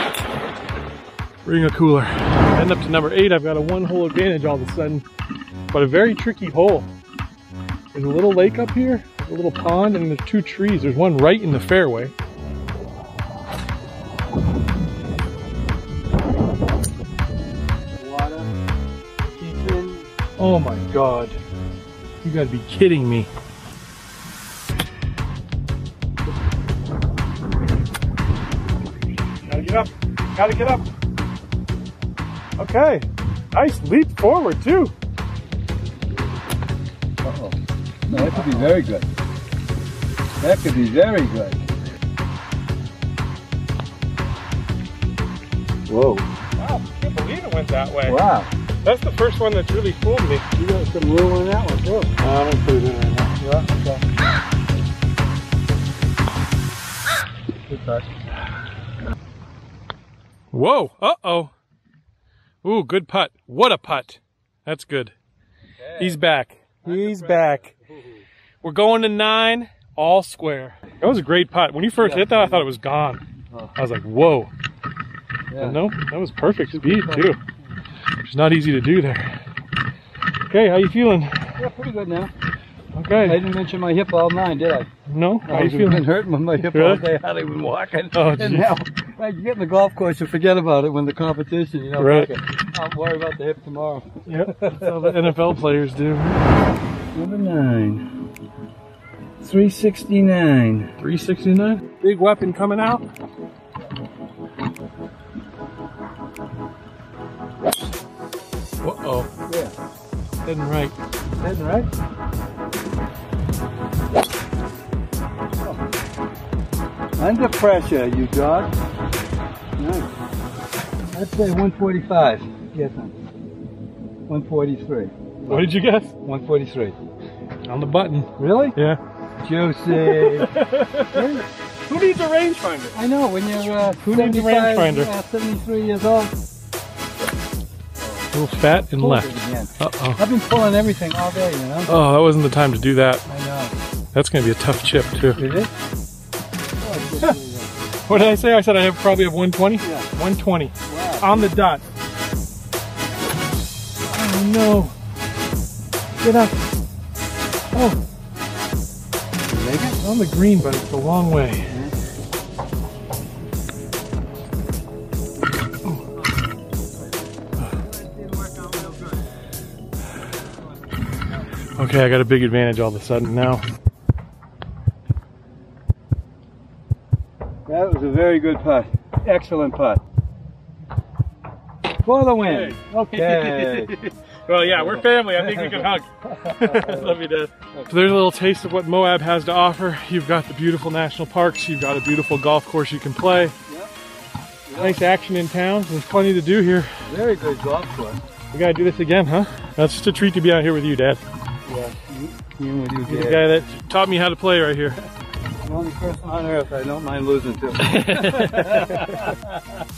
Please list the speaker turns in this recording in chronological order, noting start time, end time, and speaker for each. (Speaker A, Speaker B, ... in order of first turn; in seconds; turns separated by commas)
Speaker A: 1.4-5.0, Speaker A: 5.7-6.9, Speaker A: 7.9-12.1, Speaker B: 18.0-18.6, Speaker B: 19.4-20.1, Speaker A: 20.4-21.4, Speaker A: 22.2-23.3, Speaker A: 29.5-30.9, Speaker A: 32.6-34.9, Speaker B: 37.2-39.1, Speaker A: 38.1-38.7, Speaker B: 40.4-41.7, Speaker B: 45.9-46.3, Speaker A: 46.6-48.2, Speaker B: 48.0-48.5, Speaker A: 48.8-50.5, Speaker B: 50.5-52.1, Speaker A: 52.2-53.4, Speaker B: 53.4-54.0, Speaker B: 57.7-58.1, Speaker A: 60.5-61.5, Speaker A: 62.6-65.1, Speaker B: 65.8-66.2, Speaker A: 66.0-67.7, Speaker B: 66.8-68.3, Speaker A: 68.6-73.2, Speaker B: 72.0-72.7, Speaker A: 73.8-74.5, Speaker B: 75.5-75.8, Speaker A: 75.6-77.4, Speaker B: 76.7-77.4, Speaker A: 78.2-79.4, Speaker A: 80.5-81.4, Speaker B: 81.6-82.3, Speaker A: 82.9-83.4, Speaker B: 83.2-84.9, Speaker A: 85.1-87.1, Speaker B: 85.5-95.4, Speaker A: 88.1-88.8, Speaker A: 92.0-92.3, Speaker A: 94.3-96.5, Speaker B: 97.1-98.1, Speaker B: 99.4-100.9, Speaker A: 101.0-103.0, Speaker A: 108.8-109.3, Speaker B: 109.5-109.7, Speaker A: 110.5-111.0, Speaker B: 111.4-111.9, Speaker B: 117.2-118.7, Speaker B: 119.8-120.1, Speaker B: 121.1-123.2, Speaker B: 124.3-127.0, Speaker A: 125.5-126.1, Speaker A: 127.7-129.0, Speaker B: 128.4-128.8, Speaker B: 129.4-130.6, Speaker A: 129.9-133.0, Speaker B: 131.1-131.4, Speaker B: 132.9-136.3, Speaker A: 134.0-135.1, Speaker B: 138.0-141.9, Speaker A: 138.3-140.2, Speaker A: 141.9-143.2, Speaker B: 143.3-143.8, Speaker A: 144.1-145.4, Speaker B: 145.4-145.7, Speaker B: 146.8-147.8, Speaker A: 148.1-151.8, Speaker B: 149.8-150.1, Speaker B: 150.9-151.5, Speaker A: 154.1-154.9, Speaker A: 156.2-156.6, Speaker A: 157.7-158.0, Speaker B: 159.5-160.0, Speaker A: 160.0-161.7, Speaker B: 161.7-161.9, Speaker B: 167.7-169.3, Speaker A: 171.8-173.6, Speaker B: 177.7-180.0, Speaker B: 182.0-184.0, Speaker A: 182.4-193.5, Speaker B: 184.7-185.9, Speaker B: 186.4-187.2, Speaker B: 193.7-193.9, Speaker B: 194.7-195.1, Speaker A: 194.7-197.1, Speaker B: 197.1-198.2, Speaker A: 198.5-201.2, Speaker B: 201.7-203.5, Speaker A: 203.1-205.0, Speaker B: 205.6-209.6, Speaker A: 207.8-209.4